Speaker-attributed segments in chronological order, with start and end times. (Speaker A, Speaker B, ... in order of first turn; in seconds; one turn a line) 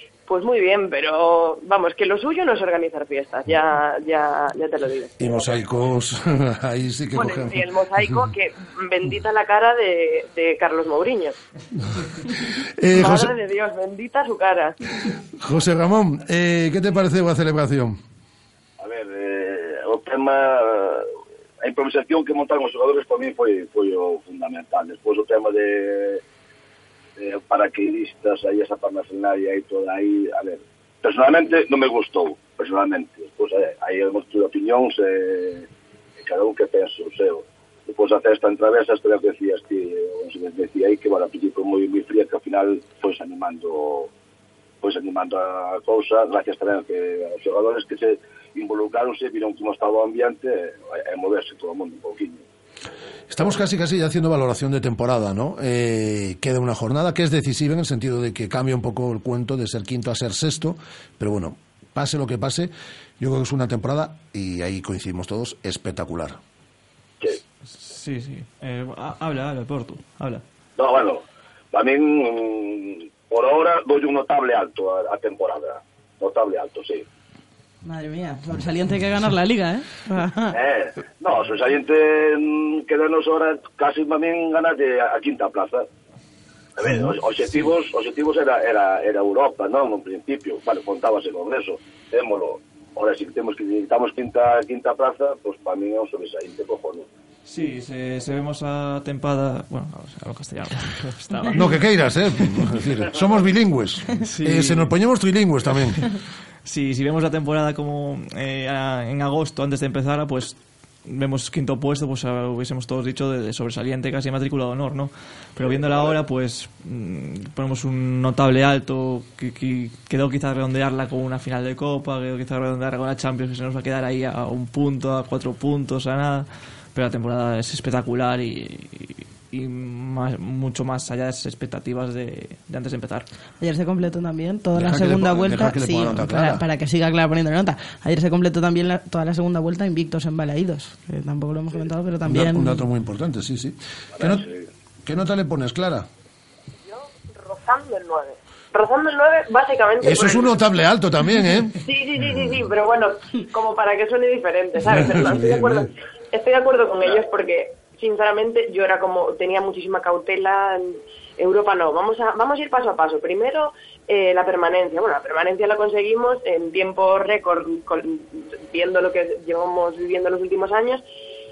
Speaker A: 0.3-5.5
Speaker B: 5.2-7.6
Speaker A: 7.1-11.3
Speaker B: 12.8-13.3
Speaker A: 12.9-14.8
Speaker B: 15.4-18.0
Speaker C: 18.8-21.1
Speaker C: 21.6-26.2
Speaker C: 27.2-35.6
Speaker C: 36.2-44.1
Speaker C: 44.8-52.4
Speaker B: 53.3-66.4
Speaker D: 67.7-70.4
Speaker C: 70.8-77.0
Speaker E: 77.8-80.6
Speaker C: 80.5-85.8
Speaker C: 86.8-97.1
Speaker D: 97.5-101.8
Speaker B: 101.5-106.0
Speaker D: 104.2-104.9
Speaker D: 106.6-133.2
Speaker C: 115.6-116.1
Speaker E: 133.6-142.8
Speaker B: 134.7-136.6
Speaker B: 142.2-144.5
Speaker C: 144.2-144.7
Speaker B: 145.0-146.1
Speaker A: 146.8-150.6
Speaker B: 150.0-151.8
Speaker A: 151.8-171.0
Speaker B: 154.9-155.8